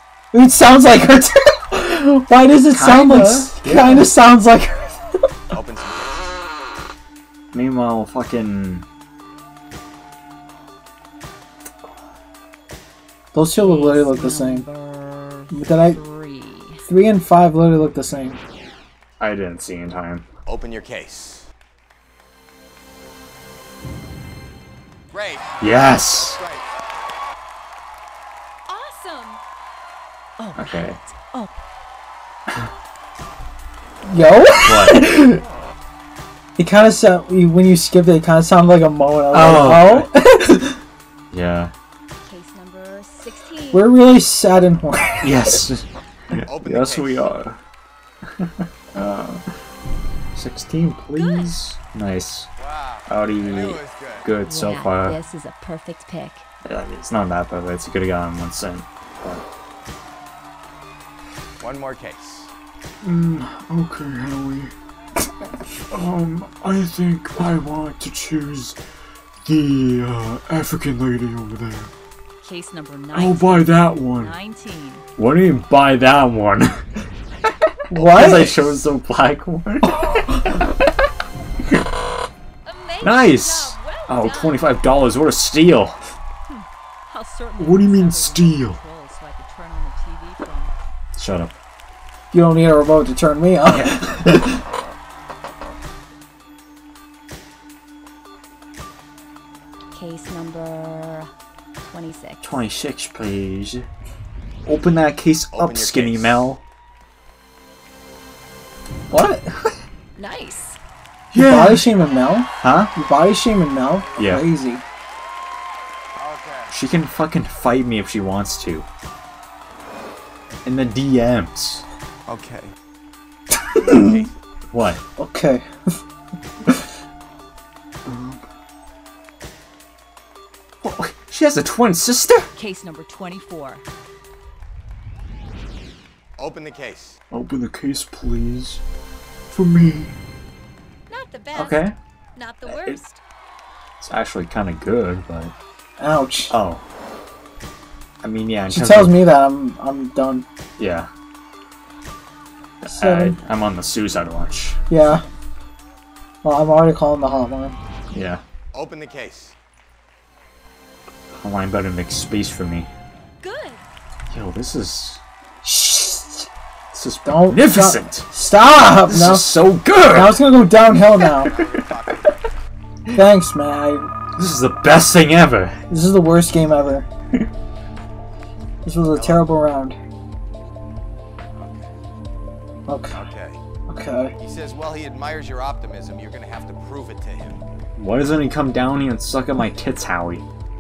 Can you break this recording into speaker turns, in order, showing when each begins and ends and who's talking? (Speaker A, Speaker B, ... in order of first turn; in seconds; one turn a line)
Speaker A: 0.3-5.3
Speaker B: 2.7-4.1
Speaker C: 5.5-6.4
Speaker B: 7.5-8.9
Speaker A: 13.3-14.7
Speaker D: 13.6-16.9
Speaker A: 15.5-16.0
Speaker A: 16.9-18.4
Speaker B: 19.2-20.3
Speaker C: 20.5-21.5
Speaker C: 25.1-26.7
Speaker B: 25.6-26.4
Speaker D: 28.7-29.4
Speaker D: 30.4-31.6
Speaker B: 30.6-31.0
Speaker A: 34.0-35.4
Speaker B: 34.6-35.0
Speaker A: 36.6-40.8
Speaker B: 39.3-40.1
Speaker B: 41.3-41.7
Speaker D: 42.2-43.9
Speaker A: 43.7-45.6
Speaker B: 45.2-47.6
Speaker C: 46.5-47.3
Speaker B: 48.4-49.5
Speaker B: 50.3-52.5
Speaker D: 51.2-51.5
Speaker C: 52.6-54.3
Speaker B: 53.1-55.2
Speaker D: 54.5-56.5
Speaker B: 56.6-59.5
Speaker C: 61.6-62.5
Speaker B: 63.0-64.7
Speaker B: 65.9-68.8
Speaker B: 69.4-71.9
Speaker D: 72.4-75.1
Speaker B: 73.1-74.3
Speaker B: 75.2-76.9
Speaker B: 77.9-80.5
Speaker A: 77.9-78.8
Speaker D: 82.7-84.8
Speaker B: 83.0-86.0
Speaker D: 86.5-90.7
Speaker B: 87.6-88.8
Speaker B: 91.2-91.5
Speaker A: 92.3-94.6
Speaker B: 93.7-94.5
Speaker D: 99.9-102.6
Speaker B: 102.4-103.9
Speaker B: 104.7-106.6
Speaker C: 105.5-106.5
Speaker A: 109.1-109.7
Speaker D: 110.2-110.8
Speaker B: 111.3-112.0
Speaker A: 111.3-114.8
Speaker B: 112.6-112.9
Speaker B: 114.2-114.5
Speaker C: 116.2-116.7
Speaker B: 116.7-118.9
Speaker B: 120.7-121.9
Speaker C: 122.3-122.8
Speaker A: 123.7-124.3
Speaker C: 123.8-124.4
Speaker B: 124.7-125.0
Speaker A: 125.2-126.0
Speaker B: 128.1-128.4
Speaker B: 130.8-132.5
Speaker D: 132.6-133.8
Speaker C: 136.4-137.2
Speaker B: 137.3-138.8
Speaker B: 139.5-140.1
Speaker D: 141.1-143.2
Speaker B: 141.5-142.0
Speaker B: 142.7-143.0
Speaker B: 144.0-145.5
Speaker A: 146.0-146.5
Speaker B: 146.5-146.8
Speaker B: 148.2-149.2
Speaker A: 148.7-150.5
Speaker B: 150.8-151.1
Speaker B: 152.8-154.8
Speaker A: 152.9-153.4
Speaker A: 154.9-155.2
Speaker A: 156.4-157.8
Speaker B: 158.1-158.4
Speaker C: 158.7-159.6
Speaker B: 161.3-162.9
Speaker D: 163.4-163.8
Speaker B: 164.3-165.2
Speaker A: 165.6-166.5
Speaker B: 166.9-168.3
Speaker A: 167.2-169.5
Speaker B: 169.1-170.4
Speaker A: 170.1-171.5
Speaker C: 171.1-172.4
Speaker A: 173.1-174.1
Speaker B: 174.4-175.8
Speaker A: 175.9-177.1
Speaker A: 178.8-180.0
Speaker C: 179.1-179.5
Speaker C: 181.5-181.9
Speaker A: 182.9-183.3
Speaker C: 183.2-183.6
Speaker A: 183.9-184.3
Speaker C: 184.4-187.6
Speaker B: 188.0-190.5